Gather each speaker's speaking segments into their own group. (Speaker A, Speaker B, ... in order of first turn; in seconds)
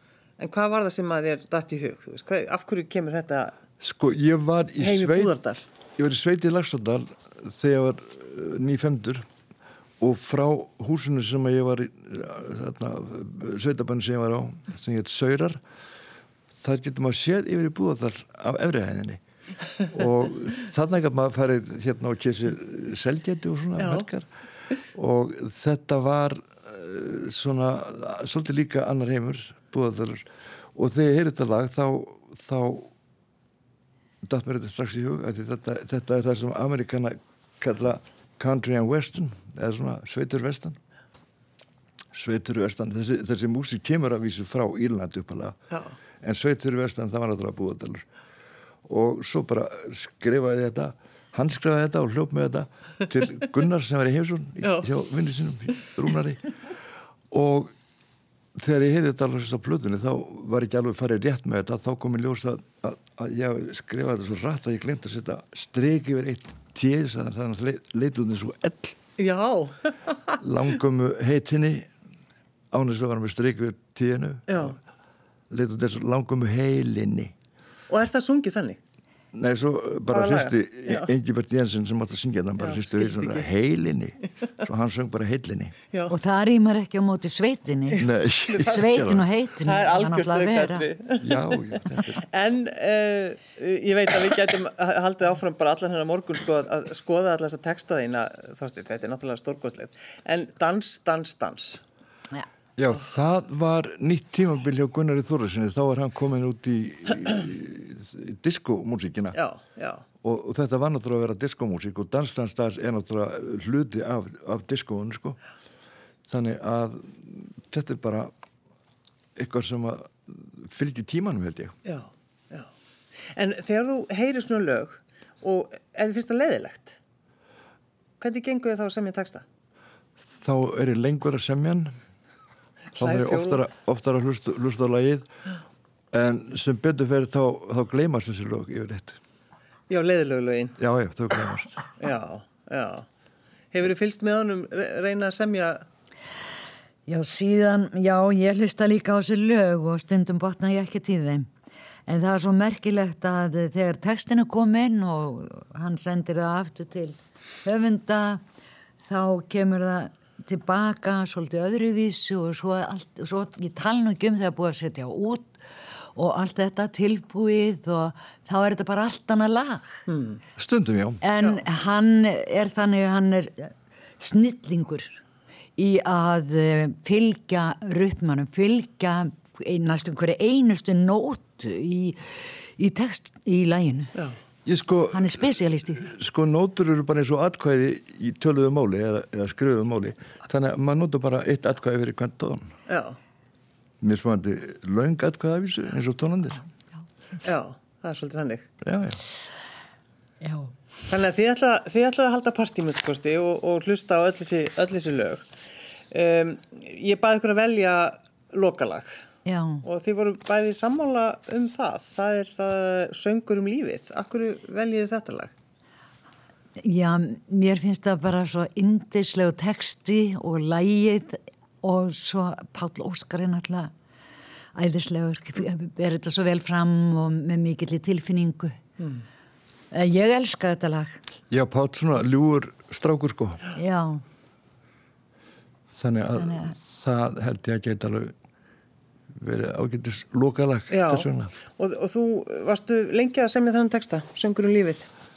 Speaker A: 0.4-3.6, 4.8-5.6, 23.8-24.1, 54.6-54.9, 69.2-70.4, 74.5-74.8, 77.9-78.8, 80.1-81.1, 82.6-83.5, 88.5-88.9, 89.6-101.8, 109.3-110.0, 121.8-122.7, 123.3-127.0, 128.2-129.4, 132.9-133.6, 139.9-140.8, 142.0-143.1, 143.7-145.8, 170.1-170.4, 192.9-193.2, 197.4-198.7, 201.1-205.5, 206.1-209.2, 209.8-215.5, 240.9-245.1
Speaker B: 3.8-5.3, 6.0-9.3, 10.0-15.6, 16.6-19.2, 19.8-24.3, 24.9-32.9, 34.2-40.8, 42.1-45.6, 46.2-48.1, 48.9-56.5, 57.3-57.7, 58.5-69.0, 70.4-71.9, 72.7-74.8, 75.5-77.3, 79.3-85.8, 88.0-89.3, 91.2-92.2, 102.8-109.4, 110.2-115.4, 116.3-118.3, 119.4-121.8, 130.2-131.9, 133.0-135.3, 136.1-139.2, 140.8-141.8, 170.6-171.2, 184.7-192.7, 194.0-196.6, 198.8-199.2, 231.5-233.7, 235.9-238.3, 239.3-241.5
Speaker C: 86.1-90.9, 147.1-151.5, 152.1-158.4, 159.1-170.0, 171.2-175.2, 175.8-184.2, 185.1-186.1, 200.4-200.8, 209.5-209.8, 216.8-223.9, 224.8-228.8, 229.9-231.2, 233.8-234.2, 236.4-236.7